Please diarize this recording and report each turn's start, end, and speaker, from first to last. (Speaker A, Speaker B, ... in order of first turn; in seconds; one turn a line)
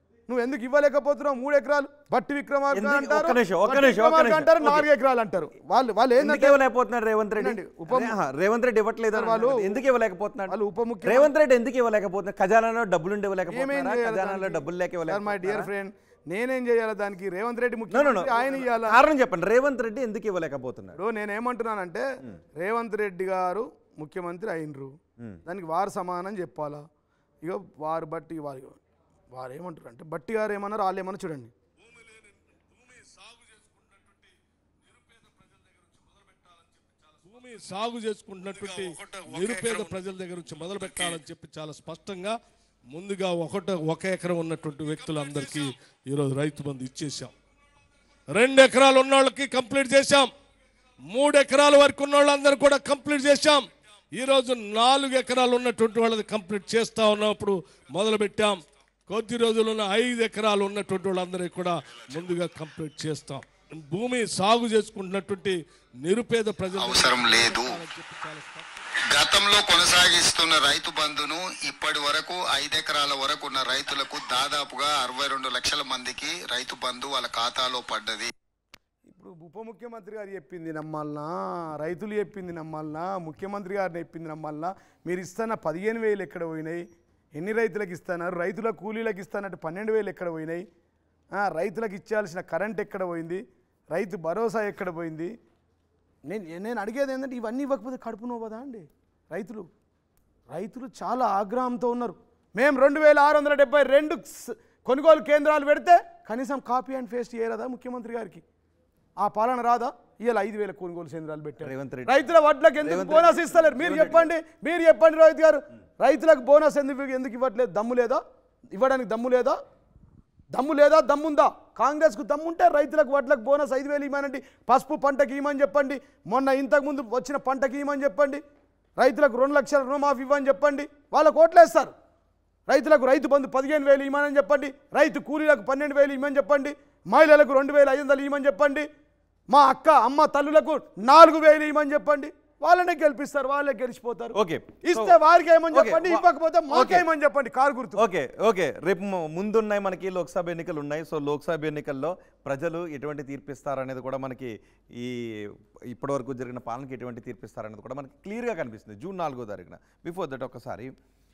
Speaker A: 0.3-6.6
Speaker B: 2.7-4.9
Speaker B: 6.2-15.7
Speaker A: 7.4-8.1
Speaker A: 9.1-9.8
Speaker A: 10.5-11.3
Speaker A: 13.5-19.0
Speaker B: 17.9-21.0
Speaker A: 20.9-26.8
Speaker A: 27.4-28.8
Speaker A: 29.3-31.5
Speaker C: 32.8-34.2
Speaker C: 35.1-35.3
Speaker C: 37.2-42.4
Speaker C: 42.9-47.3
Speaker C: 48.3-50.3
Speaker C: 51.1-68.7
Speaker D: 66.8-67.8
Speaker D: 69.1-78.3
Speaker A: 79.1-90.7
Speaker A: 91.3-95.3
Speaker A: 96.2-99.7
Speaker A: 100.5-108.4
Speaker A: 109.2-118.2
Speaker B: 111.6-112.3
Speaker B: 112.8-114.3
Speaker A: 118.7-119.6
Speaker A: 120.5-128.4
Speaker A: 129.0-131.9
Speaker A: 132.7-138.9
Speaker A: 139.5-148.0
Speaker B: 144.3-145.2
Speaker B: 145.7-147.0
Speaker B: 147.9-155.1
Speaker B: 155.9-160.9